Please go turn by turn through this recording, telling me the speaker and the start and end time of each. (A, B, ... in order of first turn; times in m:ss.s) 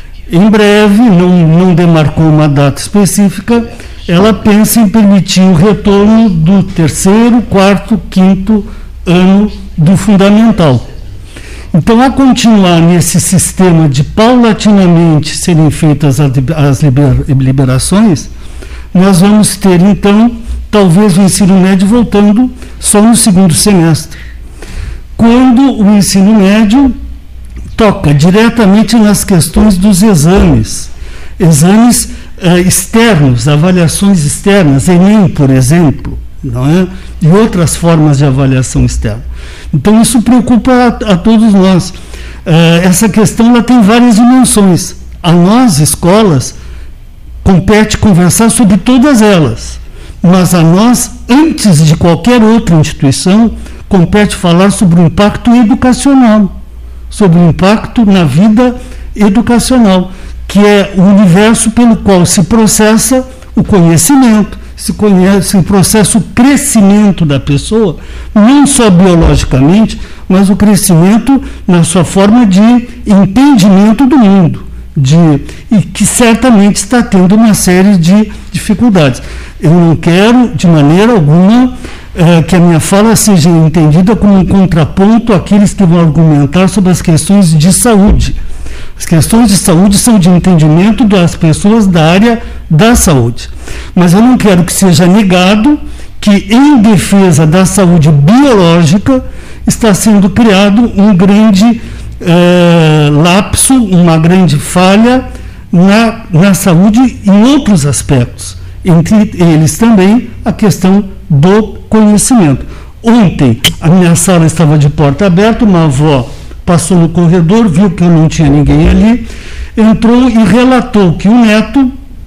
0:00.3-0:10.9 A
0:11.7-0:18.3 A
0:18.9-0:24.2 A
0:25.2-0:27.0 A
0:27.8-0:46.6 A
0:47.4-0:56.6 A
0:57.1-1:28.4 A
1:29.0-2:01.9 A